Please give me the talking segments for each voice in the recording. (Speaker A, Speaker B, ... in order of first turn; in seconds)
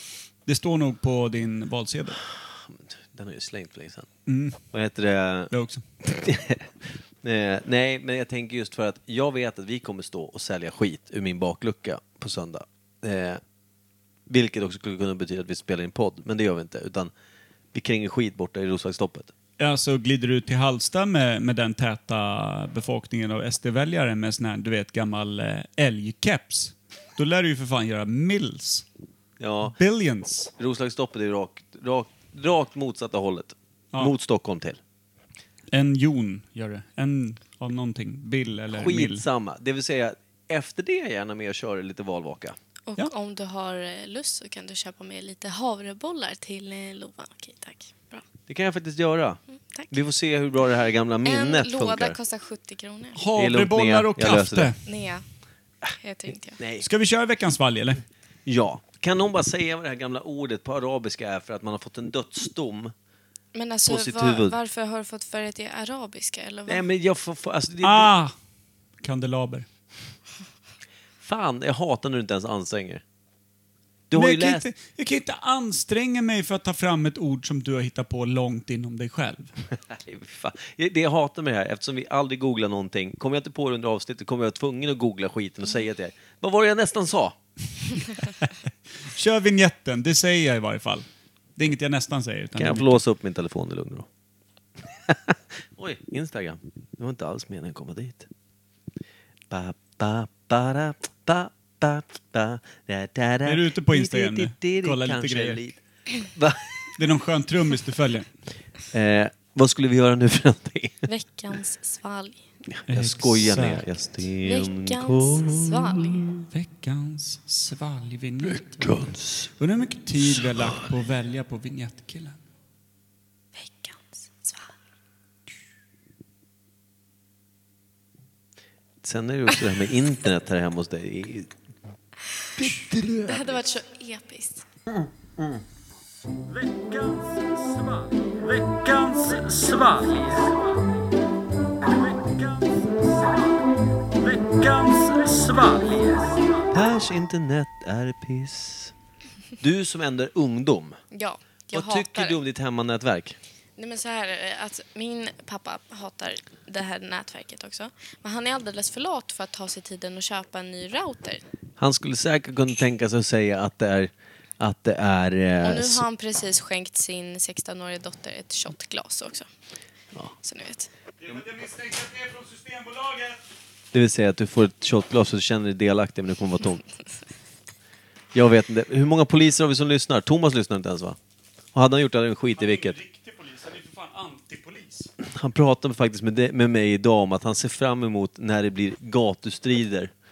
Speaker A: 0.5-2.2, 4.3-4.6, 5.5-5.8, 19.6-28.9, 29.7-30.5, 35.7-39.2, 53.1-54.8, 56.8-58.0, 67.8-68.3, 69.0-69.7, 74.1-79.5, 89.1-93.0, 103.5-105.7, 107.0-108.3, 112.9-113.8, 116.5-118.9, 119.6-122.4, 138.8-139.4, 171.2-173.4, 182.6-185.1
Speaker B: 2.4-4.1, 4.7-5.5, 6.0-13.4, 14.3-17.1, 17.7-19.3, 29.4-29.8, 30.6-34.8, 38.7-42.6, 48.5-49.4, 49.9-52.2, 53.3-54.7, 56.6-56.9, 58.5-62.9, 63.9-64.6, 66.7-68.1, 71.2-73.0, 74.1-74.7, 79.9-87.4, 92.6-94.1, 95.1-98.3, 99.5-106.6, 108.9-111.0, 112.7-116.4, 118.4-119.5, 129.0-131.5, 132.6-133.5, 146.7-148.9, 149.6-151.0, 151.7-153.4, 161.8-166.0, 173.9-176.8, 178.3-181.2, 181.7-183.0, 185.2-190.1
Speaker C: 42.9-48.2, 49.7-50.0, 51.2-53.2, 54.9-55.2, 56.0-56.6, 63.5-66.8, 111.1-112.4, 114.4-116.3, 123.6-124.7, 133.3-134.6, 151.1-152.4, 153.8-161.4, 165.6-169.5, 170.4-170.9